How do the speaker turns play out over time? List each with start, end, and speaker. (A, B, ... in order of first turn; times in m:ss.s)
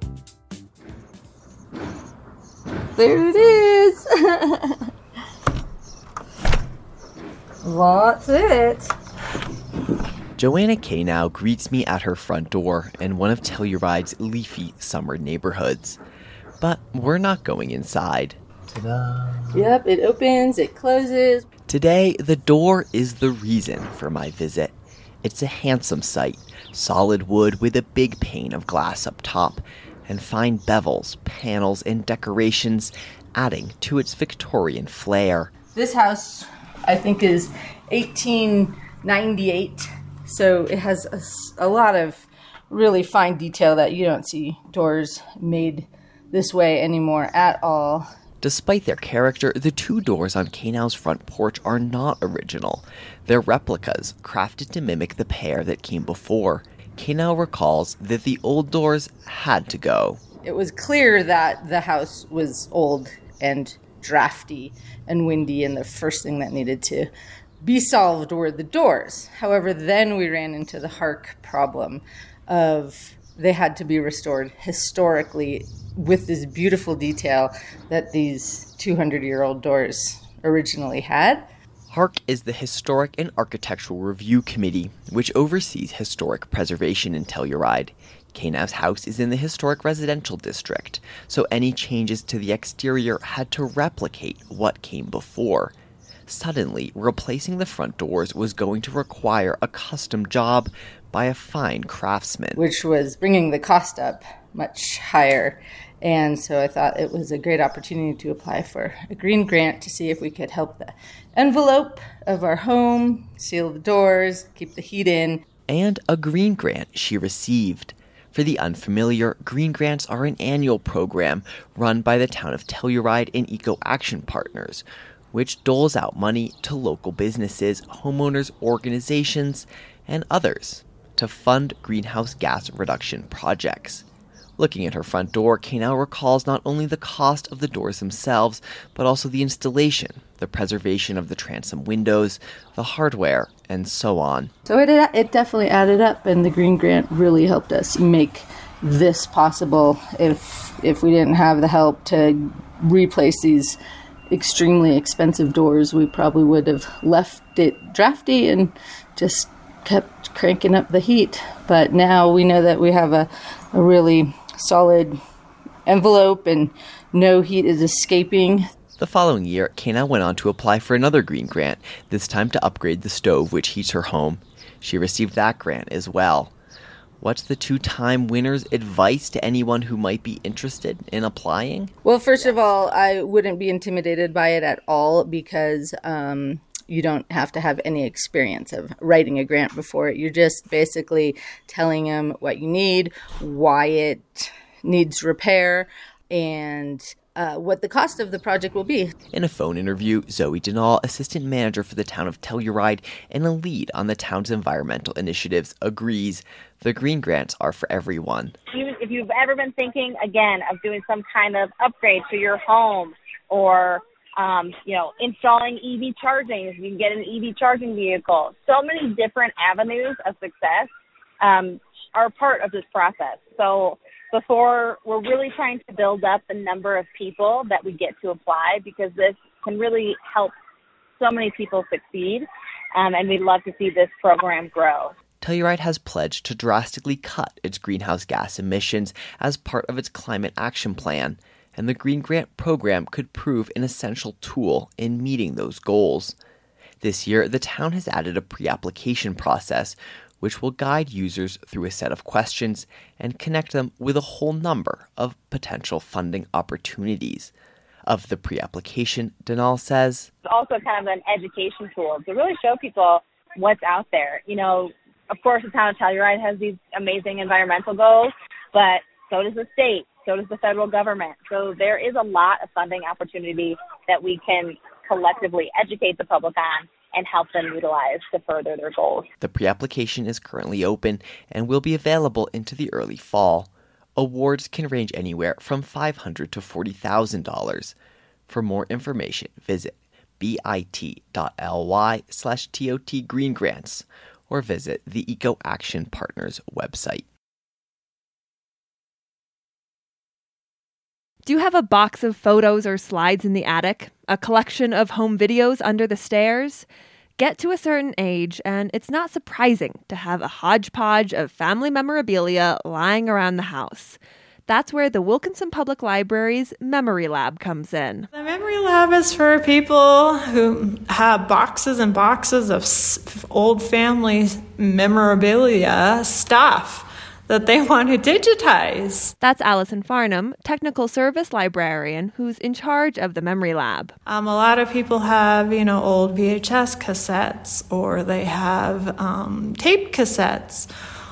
0:03.0-0:04.8 A
0:07.6-0:08.9 A
0:10.4-0:16.0 B
0:16.6-0:18.4 B
0:19.5-0:21.5 A
0:21.7-0:35.5 B
0:35.7-0:48.0 A
0:48.4-1:00.2 B
1:00.4-1:07.1 A
1:07.6-1:21.4 A
1:21.9-1:35.7 B
1:36.3-1:42.6 B
1:42.6-1:55.4 A
1:55.7-2:14.0 B
2:14.6-2:24.5 B
2:24.7-2:33.8 A
2:34.3-2:45.2 A
2:45.8-2:48.6 A
2:49.0-2:56.5 B
2:57.2-3:01.9 B
3:02.0-3:19.1 A
3:19.3-3:28.6 B
3:28.7-3:40.9 C
3:41.4-3:50.5 C
3:51.2-3:55.1 C
3:55.4-4:06.3 B
4:07.0-4:17.5 B
4:18.0-4:20.3 B
4:20.4-4:39.3 C
4:39.4-4:47.9 B
4:48.5-4:57.2 B
5:01.4-5:06.8 D
5:07.4-5:18.3 D
5:18.3-5:29.3 E
5:29.4-5:34.1 D
5:34.2-5:40.9 E